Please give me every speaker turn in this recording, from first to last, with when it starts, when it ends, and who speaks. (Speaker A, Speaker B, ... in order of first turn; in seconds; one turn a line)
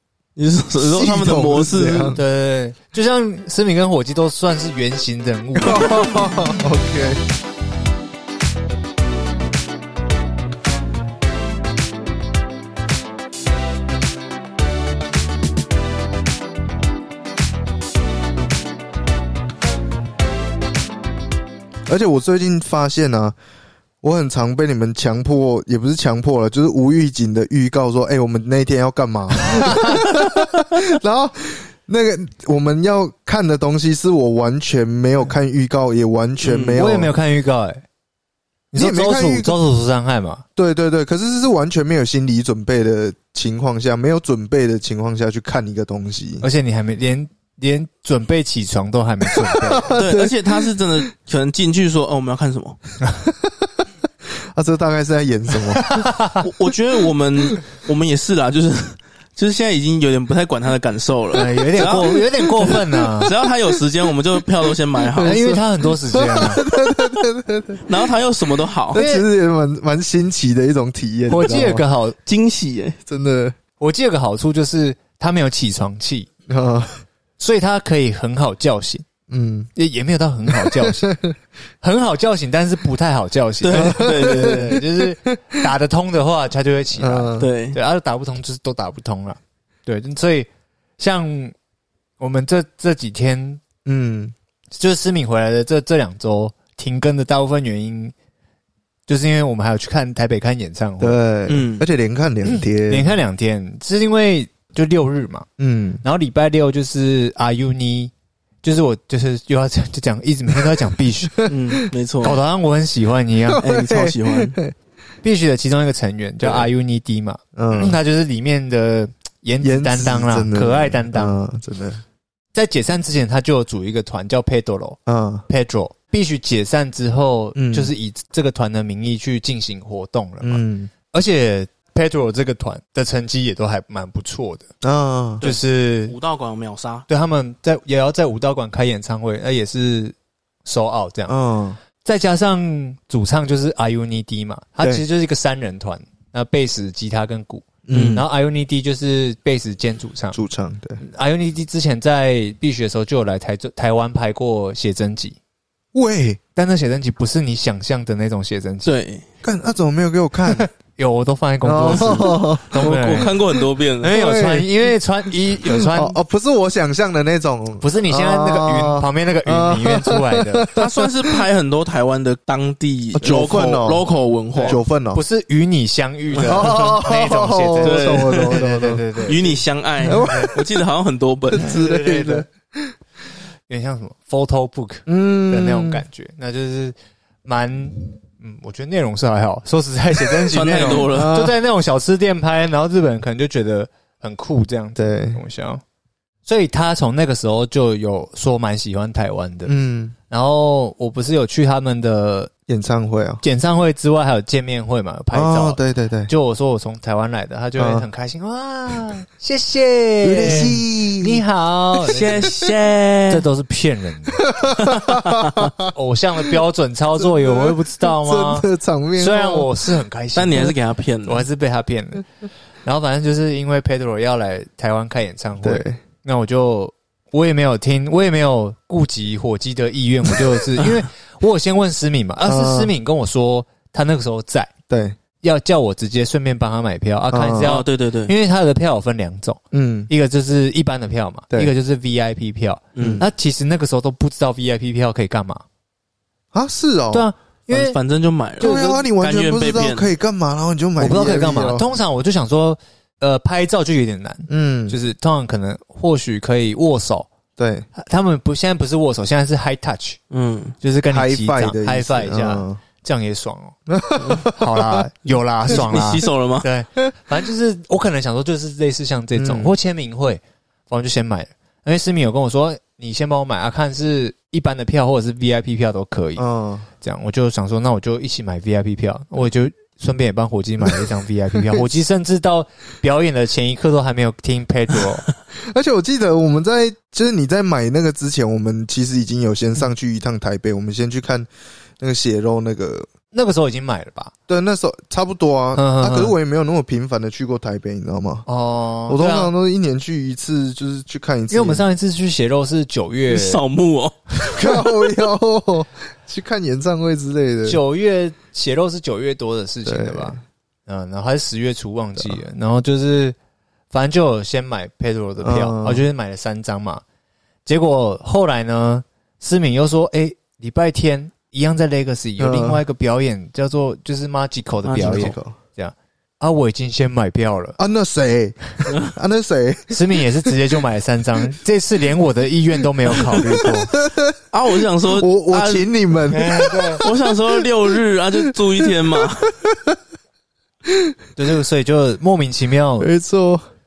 Speaker A: 0.3-2.2
Speaker B: 0.8-2.2
Speaker C: 2.1-6.0
Speaker B: 5.5-7.2
Speaker B: 21.9-23.4
Speaker B: 24.0-37.1
Speaker C: 29.4-30.0
Speaker A: 36.4-36.8
Speaker C: 36.7-37.8
Speaker C: 38.7-40.4
Speaker B: 38.7-39.5
Speaker B: 40.5-46.4
Speaker C: 46.4-49.9
Speaker B: 49.3-50.7
Speaker A: 49.9-52.8
Speaker B: 53.2-53.8
Speaker B: 54.5-56.1
Speaker C: 55.8-56.5
Speaker A: 56.4-65.4
Speaker C: 61.3-63.3
Speaker B: 61.8-63.3
Speaker B: 65.0-67.8
Speaker C: 65.2-66.6
Speaker A: 67.9-69.0
Speaker B: 68.9-71.8
Speaker C: 68.9-69.3
Speaker C: 71.3-72.2
Speaker A: 72.2-73.0
Speaker B: 73.1-73.6
Speaker C: 73.8-76.3
Speaker B: 76.5-77.0
Speaker C: 77.4-79.0
Speaker B: 79.3-79.7
Speaker C: 79.7-81.0
Speaker B: 80.5-81.3
Speaker C: 81.8-91.5
Speaker A: 83.6-84.8
Speaker B: 83.7-85.3
Speaker B: 87.0-87.5
Speaker A: 87.4-87.8
Speaker C: 92.2-93.6
Speaker B: 93.8-94.3
Speaker C: 94.8-98.1
Speaker C: 99.1-101.2
Speaker B: 101.0-103.2
Speaker A: 101.5-101.8
Speaker C: 102.5-105.5
Speaker B: 105.6-106.0
Speaker C: 106.0-108.1
Speaker C: 108.6-111.5
Speaker B: 111.3-111.9
Speaker A: 111.5-112.4
Speaker C: 112.2-113.6
Speaker B: 113.5-114.7
Speaker A: 113.6-114.6
Speaker C: 115.2-121.4
Speaker B: 117.5-118.0
Speaker B: 119.6-122.0
Speaker C: 122.5-134.7
Speaker B: 125.0-125.5
Speaker B: 127.5-127.9
Speaker B: 130.4-130.9
Speaker B: 134.8-135.4
Speaker A: 135.4-137.1
Speaker C: 135.4-136.1
Speaker C: 137.1-141.3
Speaker B: 141.3-141.8
Speaker C: 142.0-150.4
Speaker B: 147.8-148.2
Speaker A: 147.9-148.2
Speaker B: 150.3-151.0
Speaker C: 151.0-155.4
Speaker B: 155.9-156.4
Speaker C: 156.6-158.9
Speaker A: 158.8-159.2
Speaker B: 159.4-160.7
Speaker C: 160.5-163.3
Speaker B: 161.6-163.4
Speaker A: 161.9-162.2
Speaker A: 162.7-164.2
Speaker C: 164.0-166.2
Speaker B: 164.1-164.7
Speaker B: 165.6-171.4
Speaker C: 167.8-170.7
Speaker A: 170.7-174.8
Speaker B: 173.2-174.0
Speaker C: 174.6-180.5
Speaker B: 174.6-175.2
Speaker A: 176.3-176.6
Speaker B: 176.4-179.0
Speaker A: 177.8-178.6
Speaker A: 179.2-181.7
Speaker B: 180.0-180.7
Speaker B: 181.5-182.9
Speaker C: 181.6-182.4
Speaker C: 183.7-195.8
Speaker B: 185.1-186.0
Speaker A: 190.5-191.4
Speaker B: 190.8-191.5
Speaker B: 194.9-195.4
Speaker C: 196.4-199.7
Speaker B: 199.7-200.1
Speaker C: 200.3-202.5
Speaker B: 202.7-203.4
Speaker C: 203.4-212.5
Speaker B: 205.3-206.3
Speaker B: 207.8-208.1
Speaker B: 210.2-211.4
Speaker A: 212.1-213.4
Speaker C: 213.3-214.5
Speaker B: 214.5-215.7
Speaker A: 214.8-215.7
Speaker C: 215.9-218.7
Speaker B: 217.2-219.7
Speaker C: 219.2-220.7
Speaker A: 220.3-221.4
Speaker C: 221.2-222.3
Speaker C: 222.8-234.7
Speaker B: 225.6-226.0
Speaker B: 232.4-232.9
Speaker B: 234.9-235.2
Speaker C: 235.4-245.6
Speaker B: 237.3-237.7
Speaker A: 237.6-238.3
Speaker B: 239.7-240.1
Speaker A: 242.9-243.2
Speaker B: 243.0-243.2
Speaker B: 246.5-247.3
Speaker C: 247.1-248.0
Speaker A: 247.7-250.1
Speaker C: 248.6-249.0
Speaker B: 248.6-251.8
Speaker C: 251.0-257.3
Speaker B: 254.5-255.0
Speaker B: 257.6-257.9
Speaker C: 257.9-260.2
Speaker A: 260.3-260.8
Speaker C: 260.8-263.8
Speaker B: 261.1-262.8
Speaker B: 263.9-265.0
Speaker C: 264.4-276.4
Speaker A: 265.7-266.7
Speaker B: 265.7-266.0
Speaker B: 269.4-269.7
Speaker B: 276.4-276.9
Speaker C: 277.0-285.2
Speaker B: 285.6-293.1
Speaker C: 293.3-294.3
Speaker B: 294.5-298.4
Speaker C: 295.7-296.3
Speaker C: 298.5-299.5
Speaker B: 299.1-301.8
Speaker C: 301.5-303.6
Speaker A: 303.3-304.6
Speaker B: 304.5-307.8
Speaker C: 307.6-313.4
Speaker B: 309.9-310.4
Speaker C: 313.9-317.0
Speaker B: 315.4-316.0
Speaker C: 317.6-327.8
Speaker B: 322.4-322.8
Speaker B: 324.9-325.6
Speaker B: 327.8-329.9
Speaker C: 329.9-333.9
Speaker B: 333.6-334.4
Speaker A: 334.5-335.9
Speaker B: 335.1-340.0
Speaker C: 336.3-337.0
Speaker A: 337.0-339.5
Speaker B: 340.9-341.1
Speaker C: 341.4-343.1
Speaker B: 343.0-343.6